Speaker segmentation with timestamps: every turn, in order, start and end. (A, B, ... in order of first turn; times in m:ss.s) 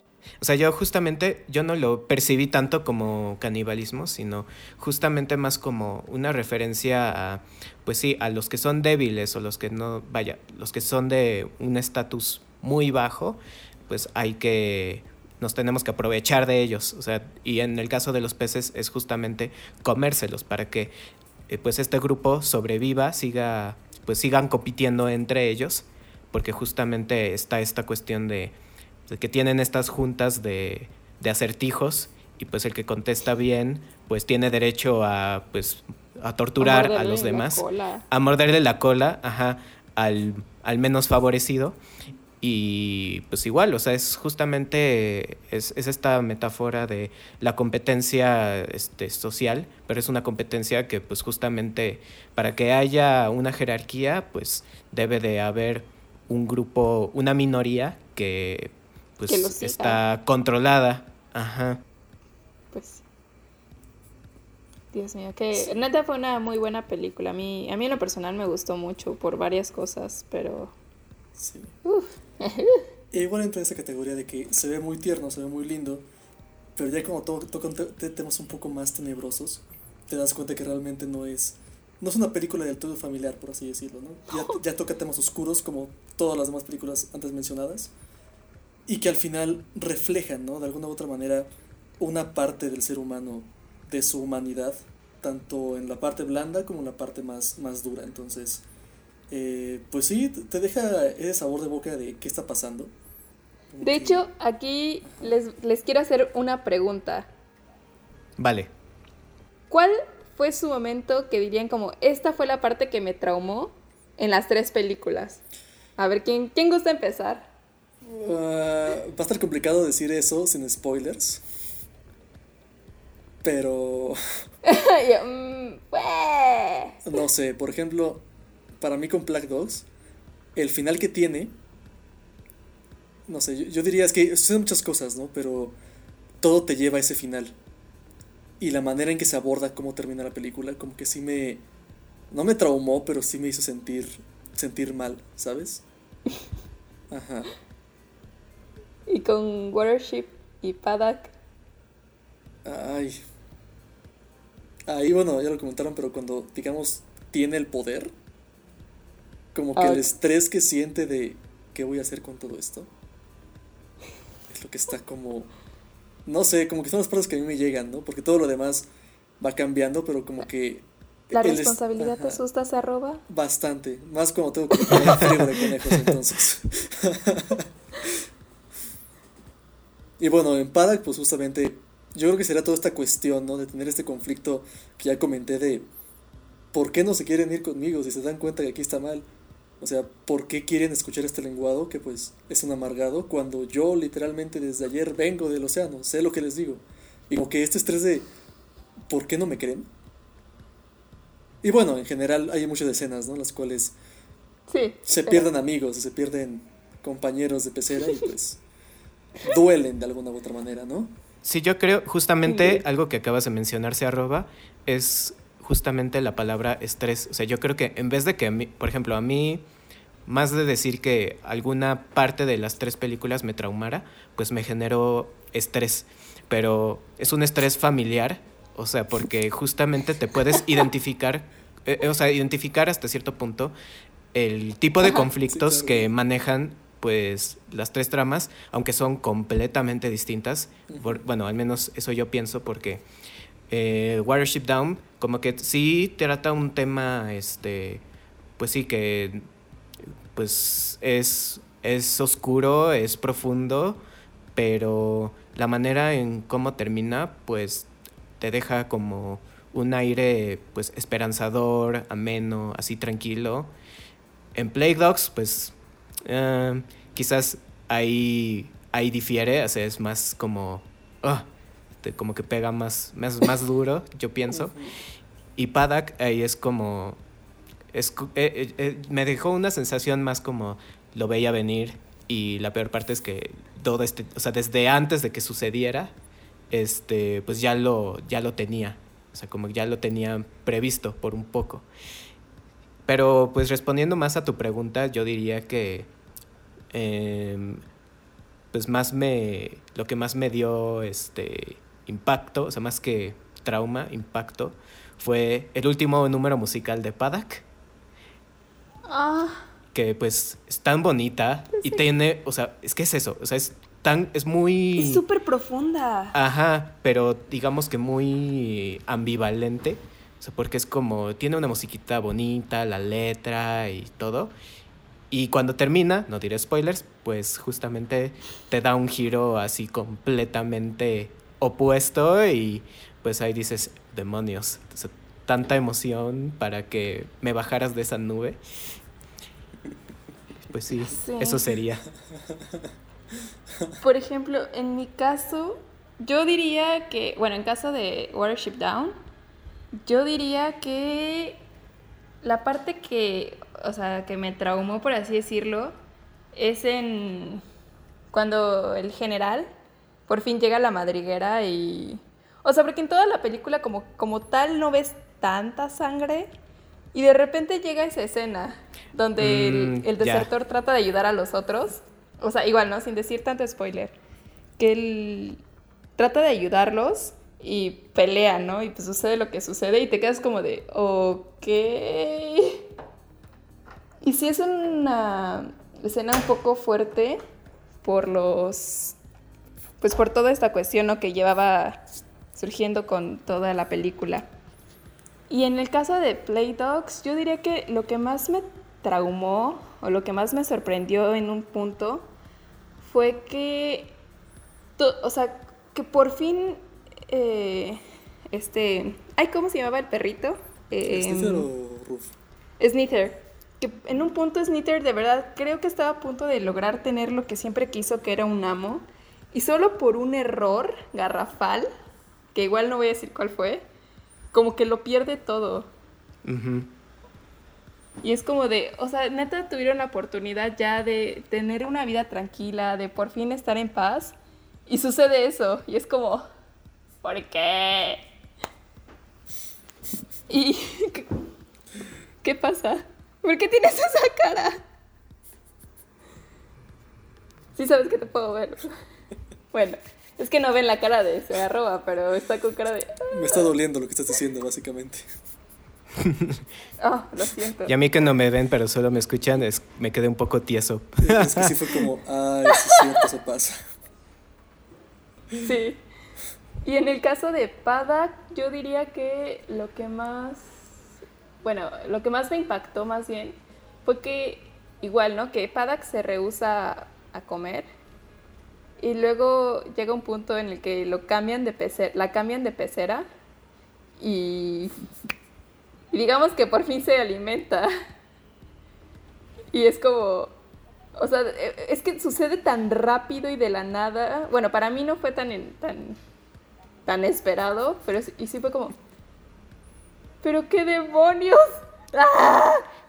0:00.4-0:20.9 A
0:21.5-0:28.5 A
0:29.1-0:41.8 A
0:36.6-0:38.0 B
0:42.4-1:01.8 A
0:59.3-1:00.0 B
1:02.7-1:03.0 B
1:04.9-1:10.7 B
1:11.4-1:11.7 C
1:11.8-1:12.8 B
1:13.1-1:16.0 C
1:16.8-1:27.9 C
1:24.3-1:24.6 B
1:28.9-1:31.5 C
1:32.0-1:38.6 C
1:39.3-1:42.9 C
1:43.7-1:44.2 C
1:43.8-1:47.3 B
1:45.0-1:45.3 C
1:48.4-1:48.7 A
1:49.7-1:55.4 B
1:56.0-1:57.5 B
1:58.0-2:01.4 C
2:03.4-2:04.2 C
2:04.6-2:07.0 B
2:07.0-2:08.2 C
2:08.8-2:09.8 C
2:10.5-2:11.5 C
2:13.3-2:15.8 C
2:16.4-2:17.6 C
2:18.6-2:21.6 C
2:22.3-2:25.8 C
2:27.1-2:27.5 C
2:29.1-2:31.3 B
2:32.6-2:33.2 C
2:34.9-2:38.1 C
2:39.5-2:42.9 C
2:39.8-2:40.1 B
2:44.5-2:45.5 C
2:46.2-2:48.9 C
2:49.4-2:52.4 C
2:51.3-2:53.2 B
2:53.3-2:57.7 C
3:00.2-3:05.9 C
3:06.7-3:09.3 C
3:09.8-3:18.3 C
3:19.1-3:19.9 C
3:21.6-3:23.9 C
3:24.7-3:25.5 B
3:25.0-3:28.6 C
3:29.4-3:31.1 C
3:31.4-3:39.6 A
3:32.4-3:32.8 B
3:40.3-3:53.7 A
3:54.3-4:03.0 A
3:55.4-3:56.1 C
4:00.9-4:01.2 C
4:03.7-4:08.0 A
4:08.6-4:09.4 A
4:10.3-4:14.0 A
4:14.5-4:17.9 A
4:18.4-4:23.7 A
4:24.5-4:25.7 A
4:26.2-4:31.4 A
4:32.0-4:34.8 A
4:34.6-4:34.9 C
4:35.6-4:37.2 A
4:37.9-4:46.1 A
4:46.7-4:51.8 A
4:53.1-4:56.1 A
4:56.9-4:57.8 A
4:58.7-5:07.6 A
5:09.1-5:09.7 B
5:09.9-5:15.2 A
5:11.7-5:12.0 B
5:15.0-5:16.4 B
5:16.3-5:24.5 A
5:25.3-5:38.6 A
5:40.7-5:42.1 A
5:41.1-5:41.6 B
5:44.0-5:49.1 B
5:50.0-5:51.6 B
5:52.4-5:55.9 B
5:56.5-5:57.6 B
5:58.3-5:59.7 B
6:00.3-6:06.5 B
6:07.1-6:14.2 B
6:09.4-6:10.5 A
6:14.8-6:15.6 B
6:16.2-6:22.8 B
6:24.2-6:27.4 B
6:28.0-6:29.2 B
6:30.0-6:34.5 B
6:35.5-6:42.3 B
6:43.0-6:44.2 B
6:45.0-6:48.0 B
6:48.5-6:51.7 B
6:51.1-6:52.3 C
6:52.8-7:01.9 B
7:02.5-7:03.8 B
7:04.5-7:05.9 B
7:06.4-7:06.9 A
7:08.2-7:14.4 B
7:14.9-7:16.4 B
7:17.2-7:18.2 B
7:20.5-7:21.3 B
7:22.4-7:24.8 B
7:27.8-7:28.9 B
7:29.7-7:33.6 B
7:33.3-7:35.2 C
7:36.2-7:36.6 A
7:37.0-7:37.9 B
7:37.9-7:41.7 A
7:41.2-7:43.8 C
7:42.7-7:43.2 B
7:45.6-7:46.0 B
7:46.8-7:50.8 B
7:51.6-7:57.9 B
7:59.0-8:03.2 B
8:04.2-8:04.9 B
8:06.1-8:07.9 B
8:09.7-8:10.6 B
8:11.2-8:16.2 B
8:17.0-8:18.9 B
8:20.4-8:22.8 B